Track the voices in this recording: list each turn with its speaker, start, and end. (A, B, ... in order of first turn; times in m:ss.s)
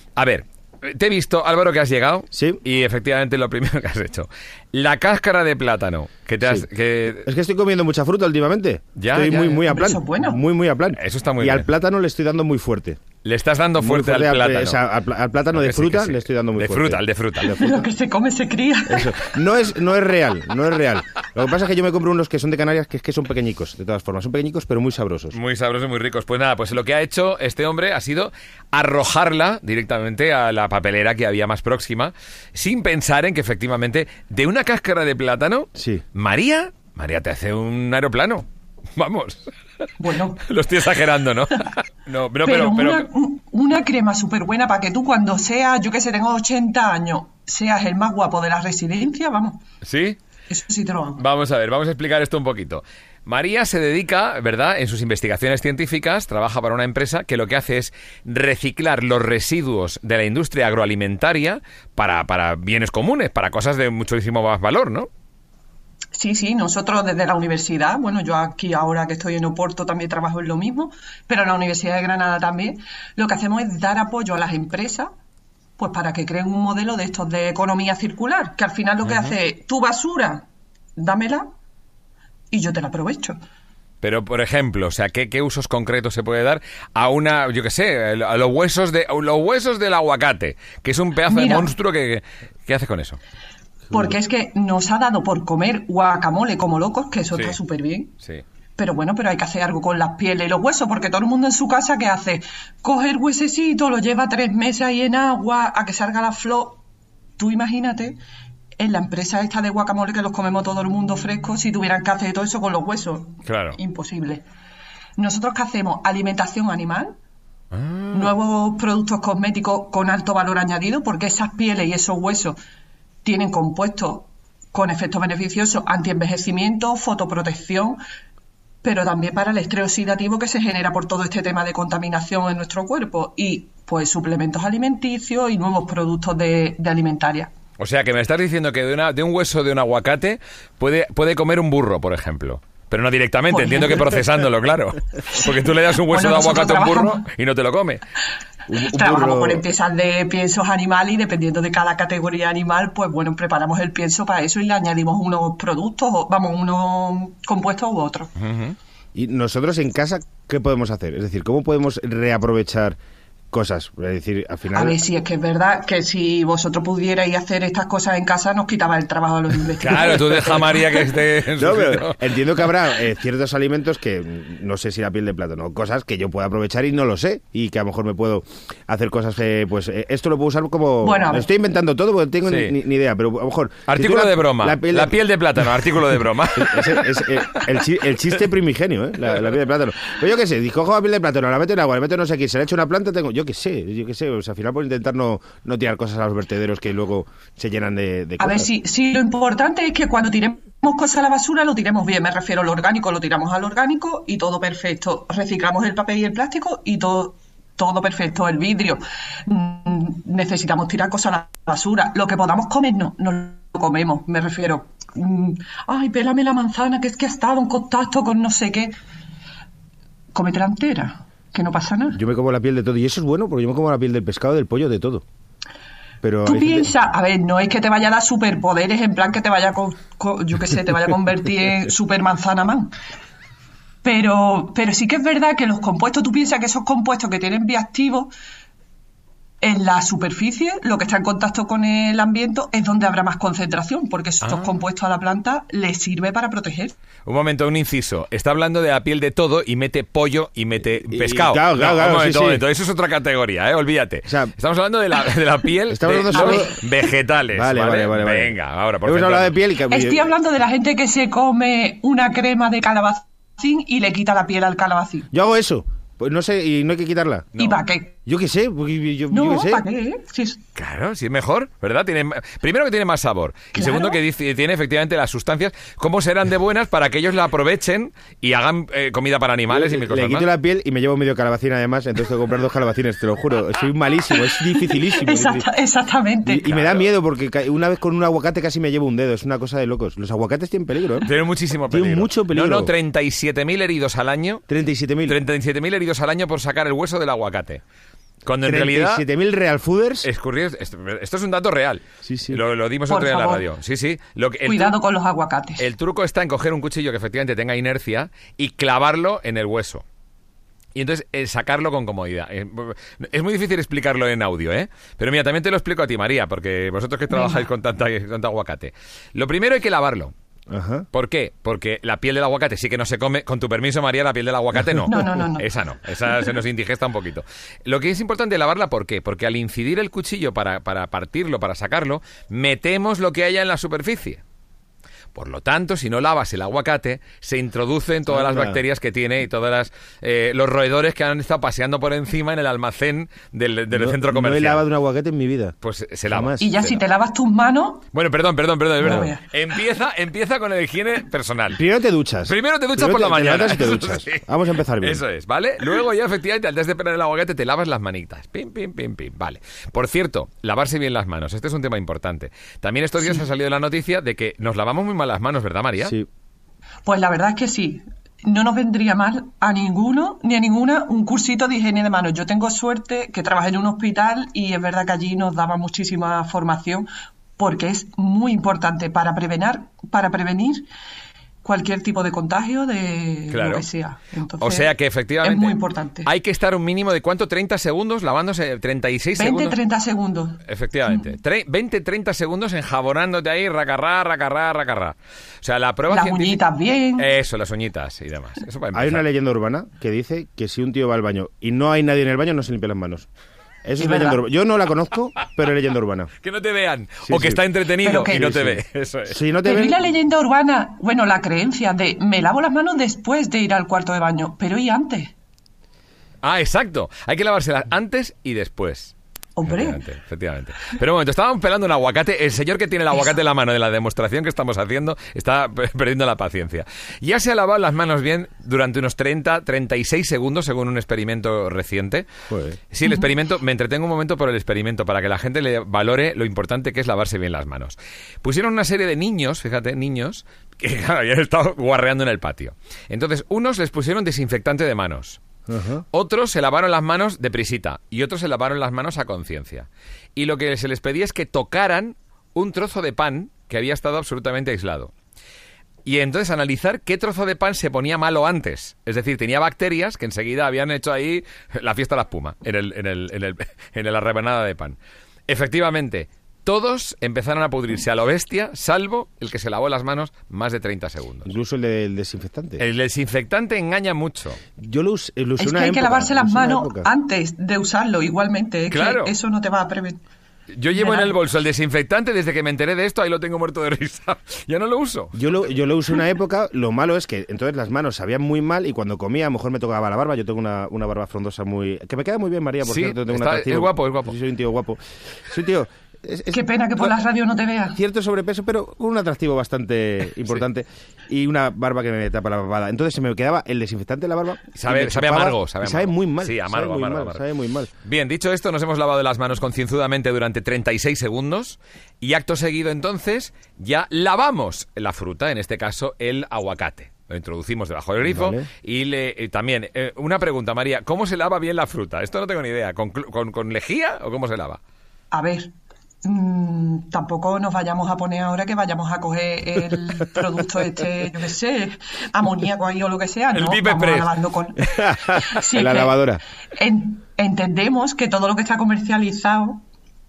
0:00.2-0:07.3 A
0:02.3-0:02.6 B
0:07.2-0:13.0 B
0:09.0-0:09.4 A
0:09.3-0:10.4 C
0:11.0-0:11.7 A
0:13.2-0:14.8 A
0:13.8-0:17.9 B
0:15.5-0:17.6 A
0:17.5-0:19.2 C
0:18.9-0:25.4 B
0:25.3-0:39.5 A
0:35.8-0:36.0 B
0:40.0-0:40.5 C
0:40.4-0:43.1 A
0:42.4-0:49.6 C
0:49.8-0:50.2 A
0:50.5-0:51.2 C
0:51.2-1:05.1 A
1:06.2-1:15.1 C
1:15.8-1:21.5 C
1:19.0-1:19.4 A
1:22.5-1:23.4 C
1:24.0-1:33.2 A
1:31.3-1:31.7 C
1:33.9-1:38.1 C
1:37.3-1:37.6 A
1:38.8-1:46.8 C
1:47.4-1:48.2 C
1:48.8-1:54.4 C
1:53.4-1:53.8 A
1:55.2-1:57.2 C
1:57.7-1:58.3 A
1:58.1-2:02.6 C
2:03.2-2:08.0 C
2:08.8-2:17.5 C
2:17.8-2:28.0 A
2:23.5-2:24.1 C
2:26.1-2:27.2 C
2:28.7-2:29.6 B
2:28.8-2:38.3 C
2:38.4-2:38.8 A
2:39.2-2:43.0 B
2:43.5-2:45.0 B
2:44.7-2:50.8 C
2:49.8-2:52.4 A
2:51.6-3:05.2 B
3:01.0-3:01.5 C
3:02.4-3:02.8 A
3:03.9-3:07.8 A
3:06.6-3:18.7 B
3:18.4-3:39.0 C
3:40.3-3:42.2 C
3:42.1-3:45.2 B
3:46.2-3:46.9 B
3:46.5-3:52.9 C
3:54.0-3:58.3 C
3:59.6-4:07.0 C
4:04.4-4:04.8 A
4:07.3-4:19.6 A
4:11.1-4:12.6 B
4:14.3-4:14.5 B
4:15.9-4:16.8 B
4:16.3-4:16.7 C
4:17.5-4:20.3 B
4:19.9-4:25.3 C
4:25.3-4:27.6 B
4:27.6-4:28.1 C
4:28.3-4:29.9 B
4:29.3-4:30.6 C
4:30.8-4:40.5 A
4:33.8-4:34.2 C
4:39.7-4:45.7 B
4:44.9-4:46.7 C
4:46.4-4:51.3 B
4:46.7-4:47.1 A
4:51.2-4:54.6 A
4:51.9-4:52.9 B
4:54.7-4:55.4 B
4:55.3-4:57.8 A
4:58.4-4:59.2 A
4:58.6-5:00.3 B
5:00.2-5:05.0 A
5:02.2-5:02.6 B
5:03.1-5:03.6 C
5:04.7-5:05.8 C
5:05.8-5:10.0 A
5:11.0-5:20.3 A
5:17.3-5:17.7 C
5:20.7-5:21.1 B
5:21.1-5:34.4 A
5:25.1-5:25.7 C
5:35.3-5:44.8 A
5:38.3-5:38.8 B
5:43.9-5:45.8 B
5:45.8-5:47.0 A
5:46.3-5:46.6 B
5:46.6-5:48.0 C
5:48.1-5:51.8 A
5:49.0-5:49.4 C
5:49.0-5:49.3 B
5:51.7-5:55.2 B
5:52.5-5:54.4 A
5:55.0-6:06.2 A
6:07.0-6:17.1 C
6:17.6-6:20.9 C
6:21.6-6:26.3 C
6:23.5-6:23.9 A
6:24.6-6:29.8 A
6:29.4-6:30.6 C
6:30.7-6:36.6 A
6:36.1-6:37.3 C
6:37.2-6:39.2 A
6:38.9-6:43.3 B
6:43.8-6:46.3 B
6:44.0-6:44.4 C
6:46.4-6:49.4 A
6:47.3-6:47.6 B
6:48.0-6:48.4 C
6:48.2-6:50.0 B
6:49.6-6:55.3 C
6:56.4-6:59.1 A
6:59.6-7:00.0 C
6:59.7-7:12.3 A
7:12.5-7:12.8 B
7:12.9-7:25.4 A
7:25.7-7:26.0 B
7:26.1-7:35.1 A
7:36.0-7:45.0 A
7:45.5-7:51.5 A
7:51.5-7:52.8 B
7:52.8-7:54.6 A
7:54.8-7:57.1 B
7:55.6-8:00.2 C
7:58.9-7:59.3 A
8:00.8-8:05.4 A
8:00.9-8:01.3 C
8:05.4-8:17.2 B
8:12.8-8:14.4 A
8:16.5-8:18.0 C
8:17.9-8:27.9 B
8:24.8-8:27.4 A
8:28.0-8:44.8 A
8:38.2-8:38.7 B
8:45.3-8:45.7 C
8:46.2-8:56.2 C
8:53.5-8:54.3 A
8:54.9-8:56.4 B
8:56.7-8:59.8 C